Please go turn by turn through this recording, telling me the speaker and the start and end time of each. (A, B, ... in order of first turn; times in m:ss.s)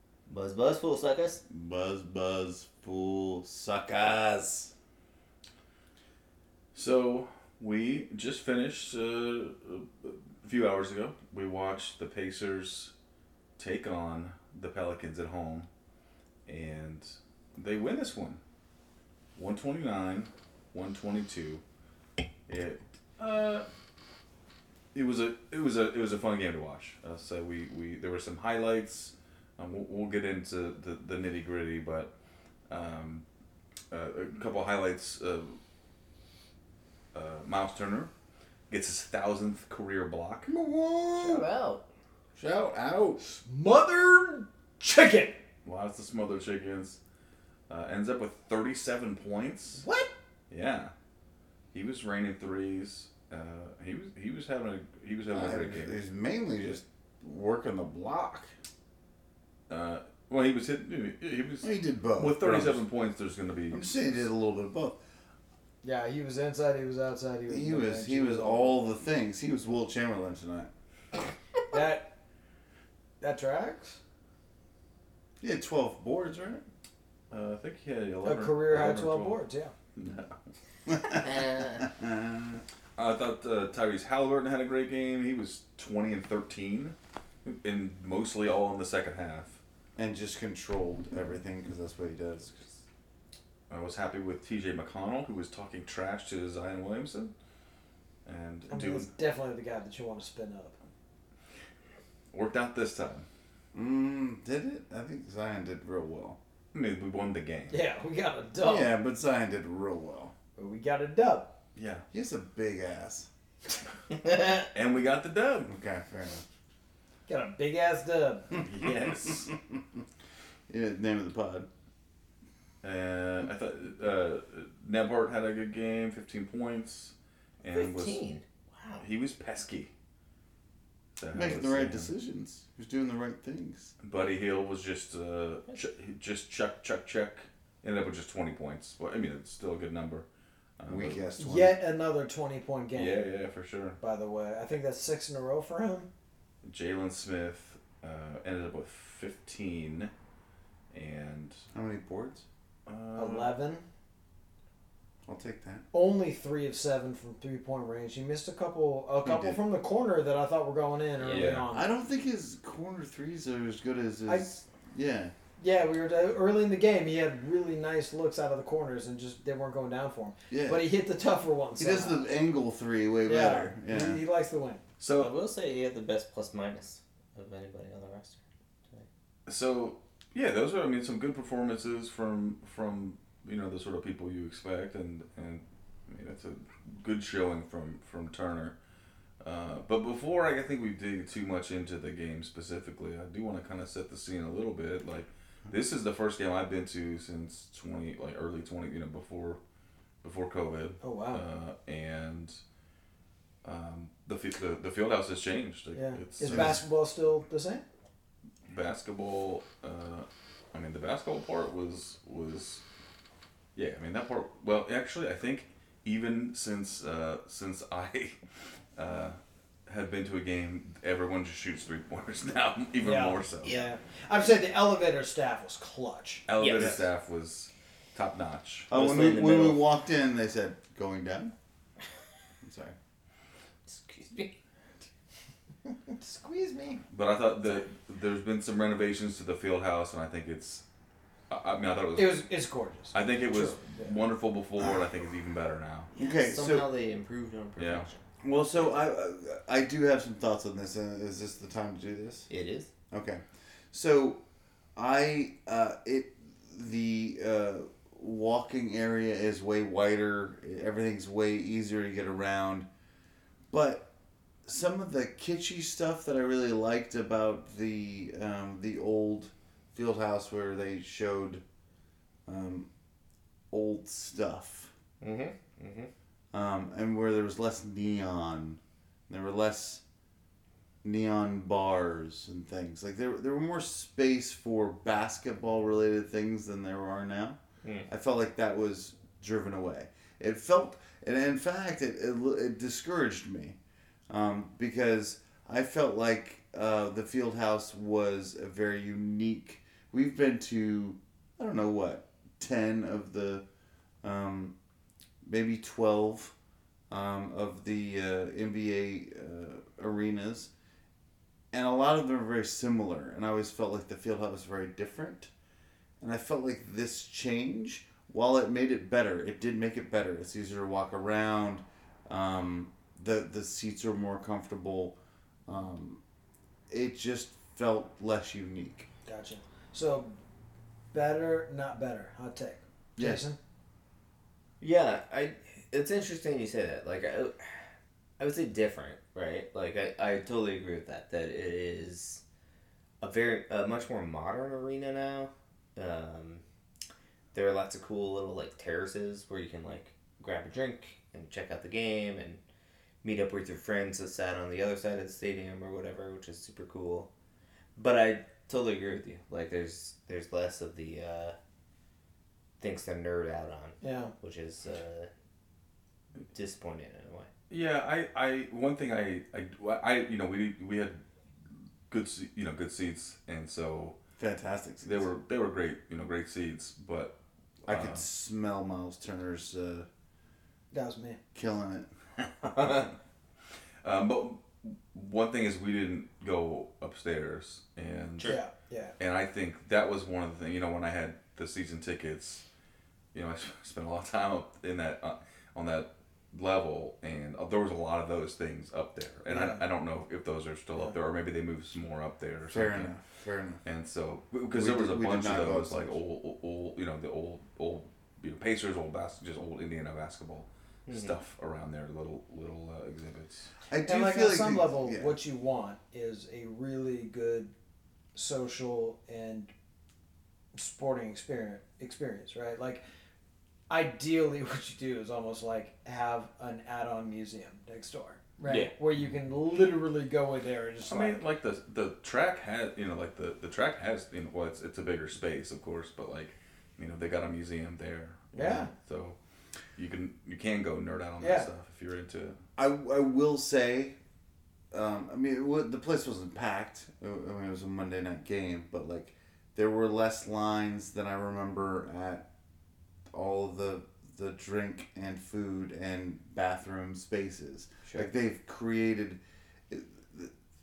0:00.3-0:01.4 A
0:01.5-0:04.7 B
0:06.7-0:12.9 C
0:13.6-0:15.7 C
0:16.5-0:18.4 C
0:19.4-0:21.6 C
0:22.5-0:23.7 C
0:24.9-0:32.1 C
0:32.7-0:33.2 C
0:33.9-0:35.6 C
0:37.1-0:38.1 C
0:38.7-0:40.5 C
0:40.5-0:41.5 B
0:41.2-0:41.8 A
0:42.4-0:43.2 B
0:43.2-0:45.4 D
0:45.6-0:47.0 C
0:47.7-0:49.8 C
0:49.8-0:50.1 D
0:50.5-0:50.9 C
0:51.7-0:56.0 C
0:55.3-0:58.5 B
0:59.7-1:04.2 C
1:01.6-1:02.8 B
1:03.7-1:05.0 B
1:05.8-1:08.8 D
1:07.5-1:10.7 B
1:11.7-1:12.2 D
1:13.2-1:14.0 D
1:15.4-1:16.6 B
1:17.3-1:19.4 C
1:18.2-1:19.7 D
1:20.0-1:20.4 C
1:20.9-1:22.6 B
1:21.1-1:21.9 A
1:23.0-1:29.6 C
1:30.0-1:32.7 B
1:33.7-1:37.3 C
1:38.3-1:39.1 C
1:38.7-1:40.8 D
1:42.3-1:43.3 C
1:43.7-1:46.4 B
1:46.7-1:47.8 C
1:47.7-1:48.9 D
1:48.6-1:50.3 B
1:50.6-1:51.5 D
1:51.8-1:52.1 C
1:52.1-1:53.3 B
1:54.7-1:55.7 C
1:55.7-1:56.4 B
1:57.3-1:58.6 D
1:58.6-1:59.5 C
1:59.2-1:59.6 B
2:00.7-2:01.7 B
2:02.8-2:08.2 C
2:07.6-2:09.0 A
2:09.0-2:09.9 C
2:11.2-2:12.1 C
2:11.3-2:13.9 B
2:14.0-2:20.3 C
2:20.8-2:21.2 C
2:20.9-2:21.8 B
2:21.4-2:23.2 D
2:23.0-2:24.0 C
2:24.0-2:26.1 D
2:26.6-2:30.1 C
2:30.9-2:31.6 C
2:31.7-2:32.5 B
2:32.9-2:33.5 C
2:33.2-2:33.8 D
2:35.3-2:35.8 B
2:35.9-2:41.9 D
2:39.2-2:39.6 B
2:41.2-2:41.5 A
2:41.3-2:41.7 C
2:41.7-2:45.3 B
2:45.6-2:52.2 D
2:50.5-2:50.9 B
2:51.8-2:54.2 B
2:53.2-2:54.8 D
2:55.0-2:55.3 C
2:55.2-2:59.1 A
2:59.5-3:08.8 C
3:09.4-3:19.6 C
3:20.2-3:22.6 C
3:21.0-3:21.4 D
3:23.6-3:26.8 C
3:26.0-3:27.8 D
3:26.4-3:26.8 B
3:28.7-3:32.8 C
3:33.8-3:38.4 C
3:39.0-3:43.7 C
3:43.0-3:46.4 D
3:46.5-3:48.9 C
3:46.6-3:47.0 A
3:46.8-3:47.0 B
3:48.9-3:51.5 B
3:48.9-3:49.8 A
3:52.6-3:53.0 B
3:53.9-3:54.6 A
3:55.9-3:57.0 D
3:57.1-4:00.8 C
4:01.5-4:02.4 C
4:02.2-4:04.2 D
4:03.1-4:06.1 C
4:06.1-4:08.2 A
4:06.2-4:06.9 B
4:07.8-4:08.1 C
4:08.4-4:12.5 B
4:12.5-4:12.9 A
4:13.1-4:14.4 B
4:15.0-4:22.9 B
4:23.7-4:24.1 B
4:24.7-4:31.6 B
4:32.5-4:32.9 B
4:33.7-4:34.9 B
4:35.2-4:36.1 A
4:36.5-4:40.0 B
4:41.0-4:53.8 B
4:47.8-4:48.1 A
4:54.3-5:03.6 B
5:04.2-5:04.7 B
5:05.4-5:06.5 B
5:07.1-5:10.7 B
5:11.7-5:15.5 B
5:16.2-5:26.2 B
5:26.9-5:29.1 B
5:29.3-5:30.4 D
5:31.1-5:33.6 D
5:33.2-5:33.4 B
5:34.8-5:37.8 A
5:38.4-5:42.4 A
5:43.2-5:46.6 A
5:47.5-5:52.6 A
5:53.2-5:57.3 A
5:58.0-6:01.6 A
6:02.8-6:05.3 A
6:04.0-6:04.3 D
6:06.5-6:07.5 A
6:07.7-6:11.2 C
6:12.1-6:14.2 C
6:14.4-6:15.3 B
6:15.0-6:17.4 C
6:17.9-6:20.1 B
6:17.9-6:18.2 C
6:20.9-6:21.4 D
6:21.5-6:22.1 B
6:24.0-6:28.6 C
6:28.4-6:29.1 D
6:29.2-6:32.6 C
6:33.3-6:43.1 C
6:39.5-6:39.8 D
6:42.7-6:43.8 B
6:43.8-6:53.7 C
6:44.7-6:46.2 B
6:51.1-6:51.4 A
6:53.9-6:55.4 B
6:54.0-6:57.7 D
6:58.4-6:59.7 D
7:00.8-7:03.0 D
7:03.9-7:11.4 D
7:08.7-7:08.9 A
7:11.1-7:19.4 C
7:18.6-7:18.9 D
7:20.0-7:22.6 C
7:21.4-7:21.7 D
7:22.8-7:24.2 B
7:24.9-7:32.5 B
7:33.3-7:40.5 B